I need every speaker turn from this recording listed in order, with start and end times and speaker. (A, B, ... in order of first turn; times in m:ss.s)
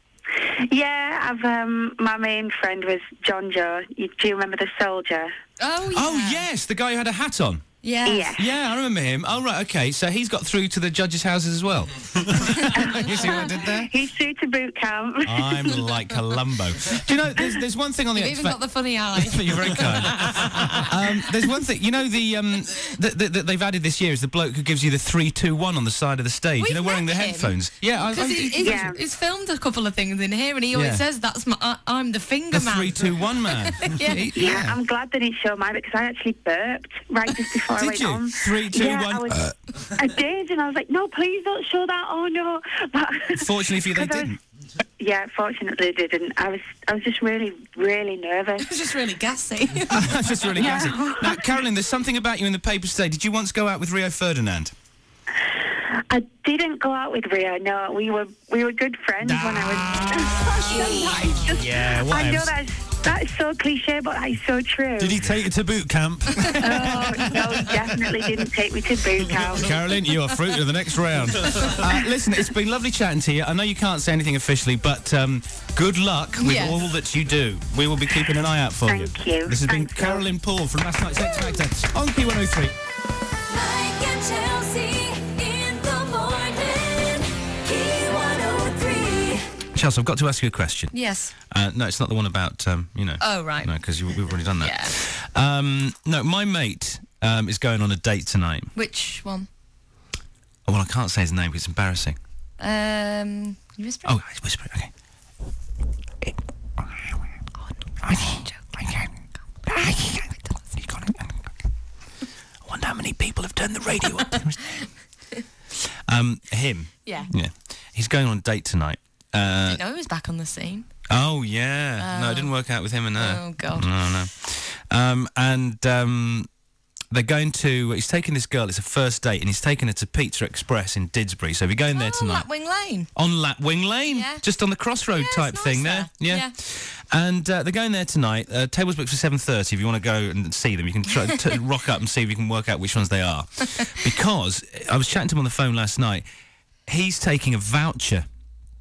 0:00.7-0:05.3 A
0:05.6-0:06.4 B
0:05.9-0:07.6 C
0:07.8-0:08.3 B
0:08.0-0:08.5 A
0:08.4-0:13.9 C
0:12.7-0:15.8 A
0:15.2-0:18.6 C
0:18.1-0:20.9 B
0:19.1-0:28.8 C
0:26.6-0:27.5 B
0:28.1-0:34.3 B
0:28.6-0:29.0 A
0:30.7-0:31.0 C
0:32.5-0:34.8 C
0:34.3-0:44.4 A
0:37.7-0:39.5 C
0:43.3-0:44.4 C
0:45.0-0:48.8 A
0:48.6-0:50.4 B
0:49.9-0:54.7 C
0:50.5-0:51.5 A
0:56.1-1:05.2 A
0:59.2-1:02.5 C
1:05.0-1:07.2 D
1:05.0-1:05.5 C
1:06.3-1:07.5 C
1:06.5-1:09.8 A
1:09.5-1:22.7 C
1:16.4-1:16.8 B
1:18.9-1:20.3 A
1:23.5-1:29.4 E
1:29.7-1:30.9 C
1:30.9-1:31.3 B
1:31.5-1:38.7 C
1:33.2-1:33.7 B
1:34.6-1:34.9 B
1:38.7-1:39.5 B
1:40.7-1:42.2 C
1:42.6-1:44.2 B
1:44.0-1:44.9 C
1:48.0-1:49.1 C
1:48.1-1:48.6 B
1:49.7-1:51.4 C
1:49.8-1:50.6 B
1:52.6-1:54.8 C
1:55.9-1:59.8 C
1:59.7-2:00.9 B
2:01.1-2:06.5 C
2:02.0-2:02.5 B
2:03.2-2:03.9 B
2:07.1-2:12.4 C
2:11.9-2:13.1 B
2:13.2-2:26.2 C
2:14.1-2:14.4 B
2:15.2-2:16.5 B
2:26.9-2:28.2 C